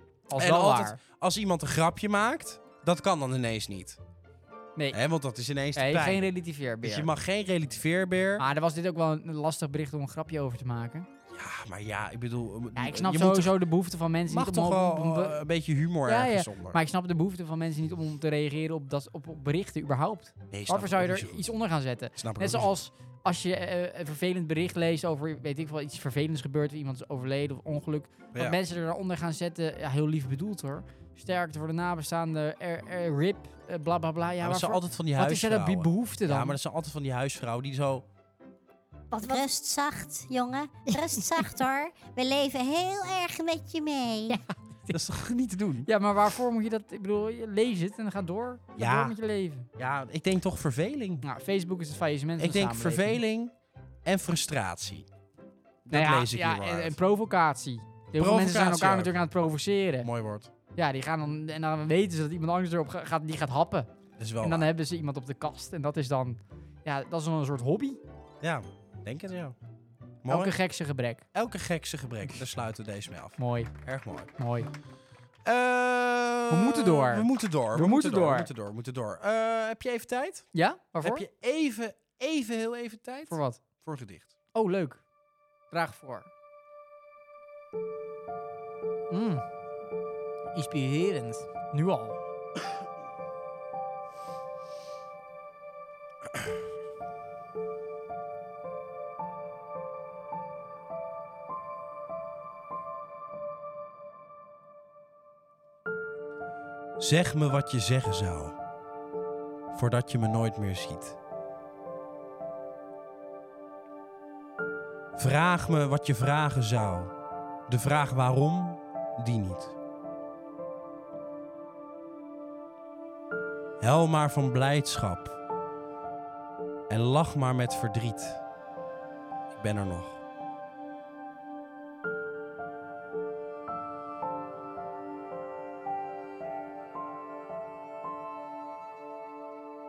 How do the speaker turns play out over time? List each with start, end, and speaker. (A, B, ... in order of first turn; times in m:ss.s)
0:00.3-0:01.0 A
0:00.3-0:04.0 B
0:04.9-0:06.3 B
0:05.7-0:07.1 A
0:06.8-0:08.4 B
0:08.4-0:11.1 A
0:11.3-0:13.6 B
0:12.8-0:15.4 A
0:14.3-0:16.8 B
0:16.0-0:36.6 A
0:20.5-0:21.5 B
0:22.2-0:22.7 B
0:28.3-0:28.6 B
0:34.4-0:38.0 B
0:39.1-0:39.4 A
0:39.2-0:44.4 C
0:44.3-0:45.0 A
0:44.9-0:45.9 B
0:45.8-0:49.7 A
0:48.8-0:49.1 B
0:49.8-0:51.2 B
0:51.2-0:53.2 A
0:52.4-0:53.5 B
0:54.0-0:55.0 B
0:55.8-0:57.0 B
0:55.9-1:00.1 A
0:58.2-0:59.3 B
1:00.0-1:00.5 B
1:00.7-1:03.9 A
1:04.2-1:04.7 B
1:04.4-1:08.0 A
1:08.4-1:09.6 B
1:10.2-1:10.5 B
1:10.3-1:11.2 A
1:11.3-1:14.3 B
1:13.4-1:13.7 A
1:14.4-1:14.7 A
1:15.4-1:20.5 B
1:16.5-1:18.5 A
1:20.5-1:21.2 A
1:21.0-1:24.3 B
1:23.3-1:23.6 A
1:24.5-1:25.0 A
1:25.7-1:26.3 A
1:29.1-1:29.4 A
1:30.5-1:32.2 A
1:47.0-1:48.6 B
1:49.7-1:51.2 B
1:55.2-1:57.1 B
1:57.7-1:59.7 B
2:03.8-2:05.4 B
2:06.9-2:08.4 B
2:09.5-2:10.2 B